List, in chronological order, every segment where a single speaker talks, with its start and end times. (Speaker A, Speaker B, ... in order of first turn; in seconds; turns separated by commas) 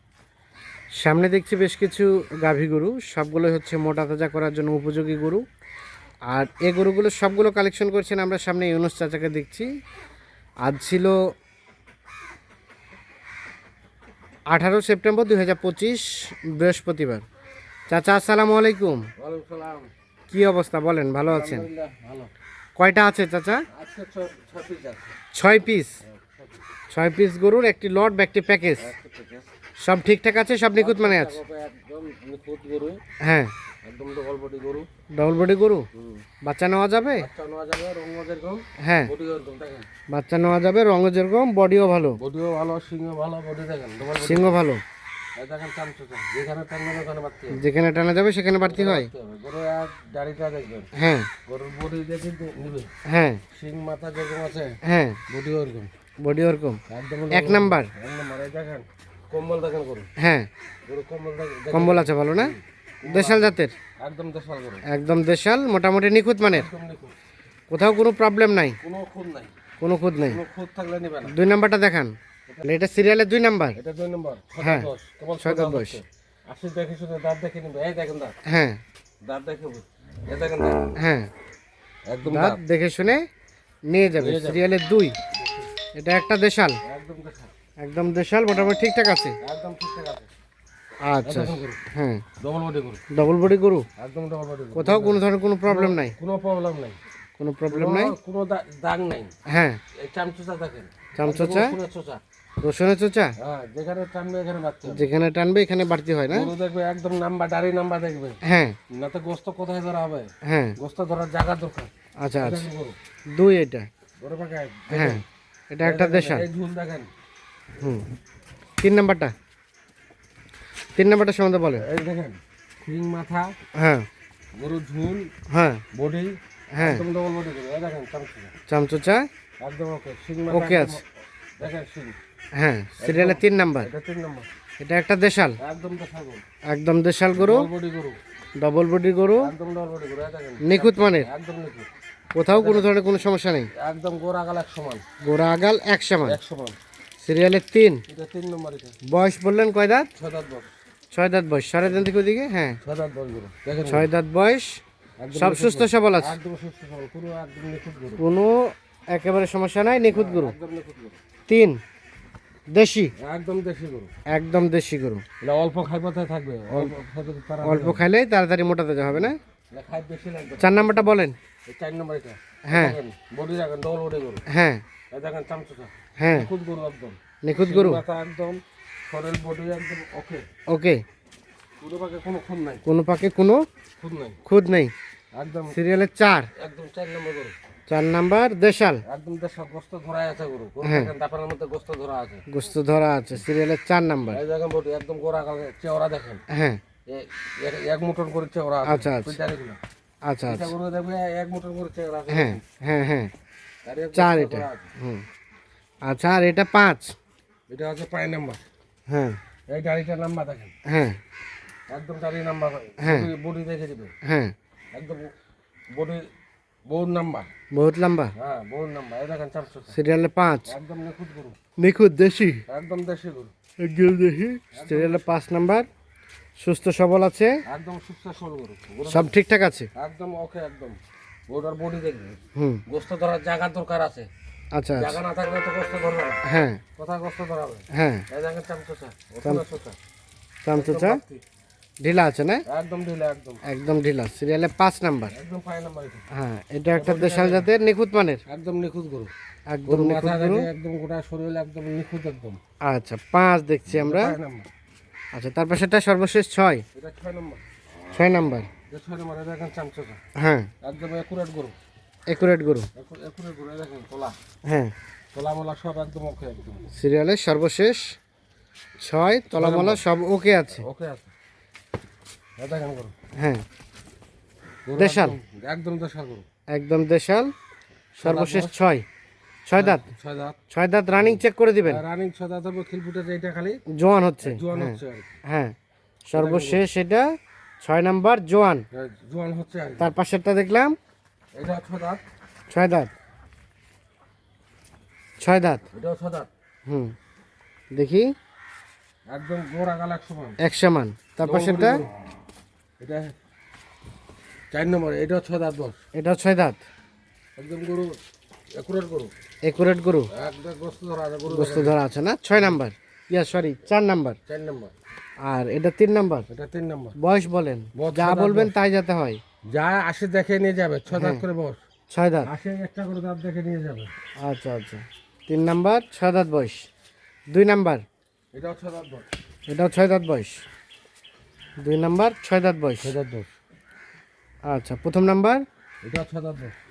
Speaker A: 1.0-5.4, Speaker A: 6.3-9.7, Speaker A: 10.6-11.2, Speaker A: 14.5-17.2, Speaker A: 17.9-19.1, Speaker B: 19.2-19.9, Speaker A: 20.3-21.7, Speaker B: 21.3-22.3, Speaker A: 22.8-23.7, Speaker B: 23.7-25.1, Speaker A: 25.4-26.0, Speaker B: 26.0-26.6, Speaker A: 26.9-28.9, Speaker B: 28.8-29.5, Speaker A: 29.8-31.4, Speaker B: 30.8-33.0, Speaker A: 33.2-33.5, Speaker B: 33.8-34.9, Speaker A: 35.1-35.9, Speaker B: 36.0-36.3, Speaker A: 36.4-37.3, Speaker B: 37.2-39.9, Speaker A: 38.8-39.1, Speaker A: 40.1-42.2, Speaker B: 42.2-44.6, Speaker A: 44.1-44.8, Speaker B: 45.4-47.6, Speaker A: 47.5-49.1, Speaker B: 48.6-50.9, Speaker A: 51.0-51.3, Speaker B: 51.5-52.9, Speaker A: 53.0-53.4, Speaker B: 53.5-55.9, Speaker A: 54.8-55.2, Speaker A: 56.2-57.9, Speaker B: 56.9-60.1, Speaker A: 60.2-60.5, Speaker B: 60.9-64.8, Speaker A: 61.7-63.8, Speaker A: 64.9-66.7, Speaker B: 66.5-67.2, Speaker A: 67.7-68.8, Speaker B: 68.8-69.5, Speaker A: 69.8-70.4, Speaker B: 70.2-71.4, Speaker A: 71.3-73.8, Speaker B: 73.8-78.3, Speaker A: 74.6-74.9, Speaker A: 75.4-76.0, Speaker A: 78.5-78.8, Speaker B: 79.2-80.9, Speaker A: 81.0-81.3, Speaker B: 82.1-82.6, Speaker A: 82.2-83.2, Speaker A: 83.9-85.2, Speaker B: 84.2-84.7, Speaker B: 85.3-85.7, Speaker A: 85.9-86.8, Speaker B: 86.8-87.5, Speaker A: 87.8-89.4, Speaker B: 89.4-90.3, Speaker A: 91.0-92.2, Speaker B: 91.2-91.8, Speaker B: 92.4-93.0, Speaker A: 93.1-93.9, Speaker B: 94.0-97.0, Speaker A: 94.8-96.2, Speaker A: 97.4-98.2, Speaker B: 97.7-99.3, Speaker A: 99.5-99.8, Speaker B: 99.9-102.2, Speaker A: 101.2-101.8, Speaker A: 102.6-103.3, Speaker B: 103.4-105.1, Speaker A: 104.9-106.5, Speaker B: 106.3-113.0, Speaker A: 108.4-108.8, Speaker A: 110.4-110.8, Speaker A: 112.2-112.7, Speaker A: 113.3-113.9, Speaker B: 114.2-115.2, Speaker A: 114.9-116.5, Speaker B: 115.8-117.1, Speaker A: 117.8-118.0, Speaker A: 118.8-119.3, Speaker A: 121.0-121.9, Speaker B: 121.8-123.5, Speaker A: 123.8-124.1, Speaker B: 124.6-125.3, Speaker A: 125.5-125.8, Speaker B: 125.9-128.5, Speaker A: 126.7-127.0, Speaker A: 128.7-129.3, Speaker B: 129.6-131.0, Speaker A: 130.5-131.0, Speaker B: 131.6-132.2, Speaker A: 132.5-133.9, Speaker B: 133.0-134.5, Speaker A: 134.8-135.6, Speaker B: 135.6-136.4, Speaker A: 136.7-137.7, Speaker B: 137.4-138.2, Speaker A: 138.6-139.5, Speaker B: 139.4-141.9, Speaker A: 140.6-141.3, Speaker A: 142.3-143.7, Speaker B: 142.5-142.9, Speaker B: 143.7-145.0, Speaker A: 145.2-146.4, Speaker B: 146.2-146.8, Speaker A: 147.2-148.0, Speaker B: 148.1-149.0, Speaker A: 149.1-150.1, Speaker B: 150.2-150.7, Speaker A: 151.1-152.8, Speaker B: 152.8-154.1, Speaker A: 153.9-154.8, Speaker B: 155.2-158.2, Speaker A: 155.3-156.4, Speaker A: 158.2-160.6, Speaker B: 160.1-161.2, Speaker A: 161.5-161.8, Speaker A: 162.7-163.1, Speaker B: 163.2-164.1, Speaker A: 164.3-165.2, Speaker B: 165.4-168.1, Speaker A: 167.6-169.4, Speaker B: 169.7-170.9, Speaker A: 170.6-171.4, Speaker B: 171.7-174.4, Speaker A: 172.7-173.0, Speaker A: 174.5-174.8, Speaker B: 175.1-180.5, Speaker A: 176.2-176.5, Speaker A: 177.4-178.0, Speaker A: 180.7-181.0, Speaker B: 181.8-182.8, Speaker A: 182.8-183.7, Speaker B: 184.0-184.4, Speaker A: 184.5-184.9, Speaker B: 185.3-185.8, Speaker A: 185.7-186.5, Speaker B: 186.6-187.6, Speaker A: 187.9-189.0, Speaker B: 189.1-192.4, Speaker A: 190.8-191.1, Speaker A: 192.5-194.4, Speaker B: 194.3-196.4, Speaker A: 196.5-196.8, Speaker B: 197.1-199.8, Speaker A: 198.8-199.4, Speaker A: 200.2-200.7, Speaker B: 200.5-202.6, Speaker A: 202.3-203.3, Speaker B: 203.8-204.9, Speaker A: 204.1-205.2, Speaker A: 206.0-207.2, Speaker B: 207.7-208.6, Speaker A: 209.1-209.4, Speaker B: 209.7-210.7, Speaker A: 210.8-211.2, Speaker B: 211.9-214.1, Speaker A: 213.0-213.3, Speaker A: 214.2-214.5, Speaker B: 214.9-215.3, Speaker B: 215.9-216.3, Speaker B: 216.9-217.5, Speaker A: 217.7-218.3, Speaker B: 218.4-220.0, Speaker A: 219.9-220.7, Speaker B: 220.7-221.6, Speaker A: 221.8-222.6, Speaker B: 222.7-223.5, Speaker A: 223.8-225.9, Speaker B: 224.7-225.2, Speaker A: 226.6-227.6, Speaker B: 227.7-229.4, Speaker A: 229.1-229.9, Speaker B: 229.9-234.3, Speaker A: 232.6-232.8, Speaker A: 234.7-235.2, Speaker B: 235.0-236.4, Speaker A: 236.4-236.8, Speaker B: 237.0-240.0, Speaker A: 237.9-238.2, Speaker A: 240.6-241.2, Speaker B: 240.7-241.4, Speaker A: 242.0-242.6, Speaker B: 242.7-243.6, Speaker A: 243.7-245.3, Speaker B: 245.3-246.3, Speaker A: 246.3-248.4, Speaker B: 246.9-247.7, Speaker B: 248.5-249.3, Speaker A: 249.7-250.7, Speaker B: 249.9-252.6, Speaker A: 252.8-254.4, Speaker B: 253.9-254.7, Speaker A: 255.3-256.8, Speaker B: 256.9-257.6, Speaker A: 258.1-258.7, Speaker B: 258.9-260.2, Speaker A: 260.4-260.7, Speaker B: 260.8-261.8, Speaker A: 262.3-262.9, Speaker B: 262.9-264.4, Speaker A: 264.6-264.9, Speaker B: 265.3-266.9, Speaker A: 267.0-268.1, Speaker A: 269.0-270.9, Speaker B: 269.5-270.0, Speaker B: 270.7-271.3, Speaker B: 272.6-273.1, Speaker A: 273.4-273.6, Speaker B: 274.9-276.4, Speaker A: 275.0-275.4, Speaker A: 276.7-277.5, Speaker B: 278.1-278.8, Speaker A: 278.2-279.1, Speaker A: 279.7-280.1, Speaker B: 279.8-280.6, Speaker A: 280.7-282.0, Speaker B: 281.2-283.8, Speaker A: 283.9-285.8, Speaker B: 284.4-285.3, Speaker A: 286.3-287.3, Speaker B: 286.3-286.9, Speaker A: 287.8-288.9, Speaker B: 288.9-290.1, Speaker A: 290.0-291.0, Speaker B: 291.6-292.2, Speaker A: 292.7-293.1, Speaker A: 295.4-295.9, Speaker B: 295.9-296.5, Speaker A: 296.9-297.1, Speaker A: 297.9-298.3, Speaker B: 299.3-300.6, Speaker A: 300.6-302.0, Speaker B: 301.4-302.1, Speaker B: 303.0-303.3, Speaker B: 304.7-306.0, Speaker A: 306.1-306.8, Speaker B: 307.6-308.2, Speaker B: 308.8-309.3, Speaker A: 309.6-310.3, Speaker B: 310.3-312.0, Speaker A: 311.5-314.4, Speaker B: 314.5-314.9, Speaker A: 315.4-316.5, Speaker B: 316.5-317.2, Speaker A: 317.2-319.4, Speaker B: 317.9-318.8, Speaker B: 319.7-321.8, Speaker A: 321.1-321.4, Speaker A: 322.1-322.5, Speaker B: 322.4-324.1, Speaker A: 324.4-326.9, Speaker A: 327.5-328.0, Speaker B: 328.5-329.3, Speaker A: 329.7-330.6, Speaker A: 331.8-333.1, Speaker B: 333.0-333.5, Speaker A: 334.7-335.6, Speaker B: 336.0-336.7